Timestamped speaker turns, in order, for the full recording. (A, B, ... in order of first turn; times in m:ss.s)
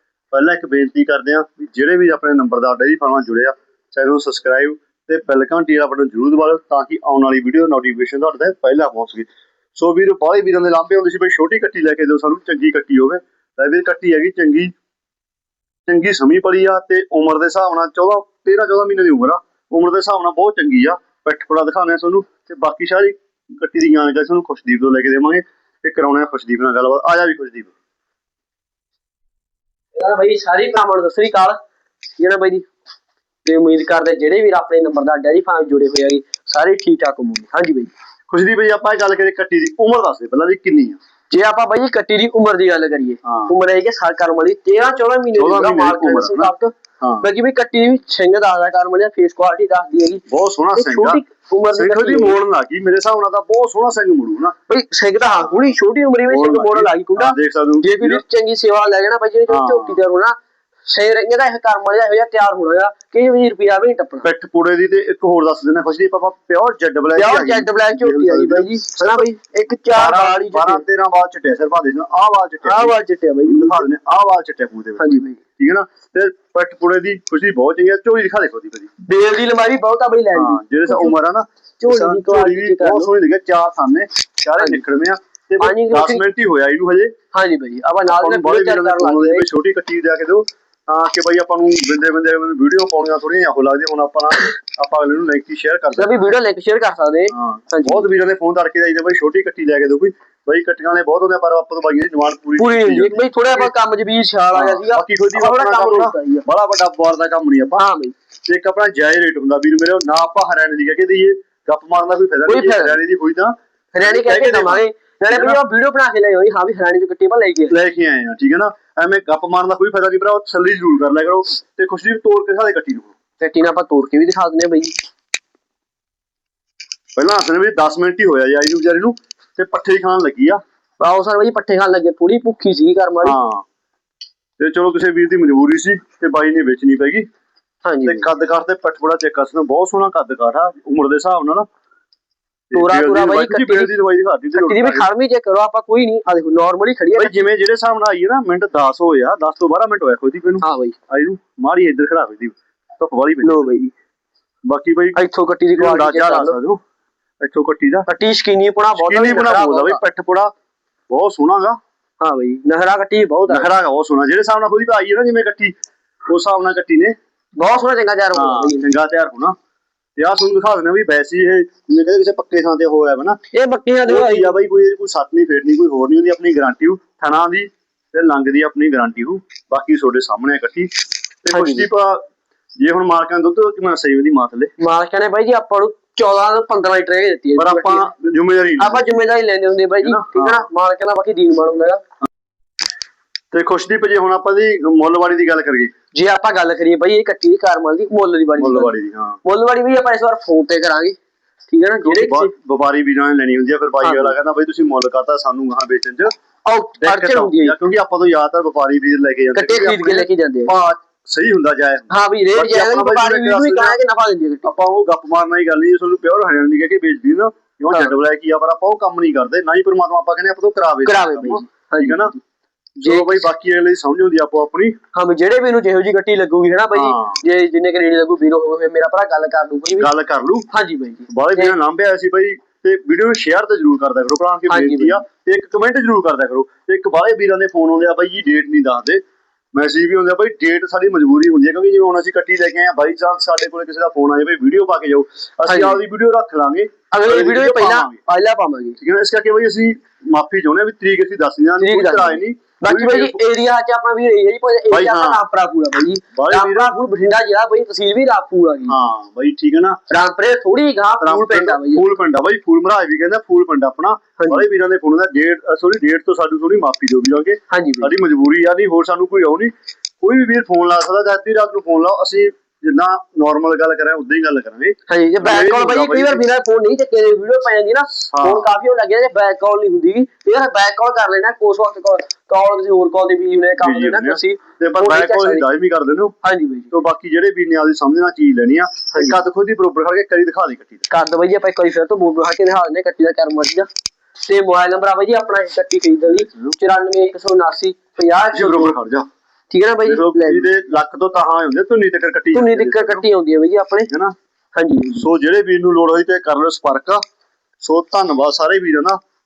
0:00.3-0:14.7 A
0:15.9-0:27.7 A
0:30.0-0:31.6 B
0:32.2-0:32.7 B
0:33.4-0:37.9 B
0:38.3-0:41.0 A
0:41.3-0:50.2 B
0:43.2-0:43.5 A
0:45.3-0:47.3 A
0:50.3-0:51.2 A
0:50.8-0:52.4 B
0:51.7-0:54.6 A
0:54.7-1:04.2 B
0:55.4-0:55.8 A
0:56.3-0:58.2 A
0:59.5-1:00.0 A
1:04.2-1:09.3 A
1:07.2-1:10.8 B
1:09.9-1:13.0 A
1:12.6-1:13.9 B
1:13.4-1:18.9 A
1:15.0-1:15.4 B
1:19.0-1:21.1 B
1:20.3-1:27.1 A
1:21.8-1:23.1 B
1:25.6-1:26.2 B
1:27.3-1:29.4 B
1:28.1-1:36.1 A
1:36.0-1:38.1 B
1:37.3-1:43.7 A
1:42.6-1:46.4 B
1:44.5-1:47.8 A
1:47.8-1:48.1 B
1:48.5-1:55.6 A
1:52.5-1:53.0 B
1:53.9-1:57.8 B
1:57.7-2:03.1 A
2:03.4-2:05.0 B
2:07.2-2:10.6 A
2:11.0-2:13.4 B
2:13.2-2:13.6 A
2:14.6-2:17.3 A
2:17.8-2:18.2 B
2:18.0-2:21.7 A
2:22.7-2:25.1 A
2:22.7-2:23.9 B
2:24.6-2:27.4 B
2:27.2-2:33.7 A
2:30.6-2:31.0 B
2:33.4-2:33.9 B
2:34.7-2:35.2 A
2:35.1-2:36.6 B
2:35.8-2:36.8 A
2:37.4-2:38.1 A
2:38.1-2:40.0 B
2:39.0-2:40.5 A
2:41.1-2:41.8 A
2:42.2-2:43.7 B
2:43.5-2:45.8 A
2:46.3-2:47.2 A
2:47.6-2:48.8 B
2:48.3-2:49.6 A
2:50.2-2:53.4 A
2:53.5-2:54.6 B
2:54.0-3:00.9 A
3:01.4-3:02.2 A
3:01.5-3:01.9 B
3:02.8-3:04.7 A
3:04.8-3:08.1 B
3:07.6-3:09.1 A
3:08.8-3:12.0 B
3:10.0-3:10.7 A
3:13.5-3:15.9 A
3:16.1-3:18.9 B
3:18.6-3:19.4 A
3:19.4-3:21.2 B
3:21.7-3:22.5 B
3:22.0-3:26.3 A
3:24.0-3:24.4 B
3:26.6-3:27.8 B
3:27.0-3:34.0 A
3:29.5-3:30.7 B
3:32.1-3:34.7 B
3:34.6-3:42.4 A
3:41.0-3:42.4 B
3:43.0-3:45.0 A
3:43.0-3:43.4 B
3:45.1-3:50.1 B
3:46.9-3:47.4 A
3:50.0-3:50.7 A
3:50.7-3:51.8 B
3:51.3-3:59.2 A
3:54.7-3:55.2 B
3:59.8-4:08.2 A
4:05.7-4:06.0 B
4:07.1-4:09.0 B
4:09.0-4:13.4 A
4:11.8-4:18.9 B
4:14.9-4:15.4 A
4:16.3-4:16.9 A
4:18.9-4:20.0 A
4:20.1-4:22.1 B
4:21.2-4:36.4 A
4:24.4-4:24.6 B
4:27.7-4:28.1 B
4:35.1-4:45.6 B
4:38.3-4:38.7 A
4:43.8-4:46.3 A
4:46.4-4:46.9 B
4:46.9-4:51.1 A
4:49.1-4:49.4 B
4:51.1-4:53.9 B
4:54.4-4:59.0 B
4:58.5-4:59.3 A
4:59.7-5:00.7 B
5:00.0-5:03.2 A
5:02.5-5:04.1 B
5:04.1-5:04.3 A
5:04.8-5:05.2 B
5:05.1-5:07.2 A
5:07.8-5:09.2 A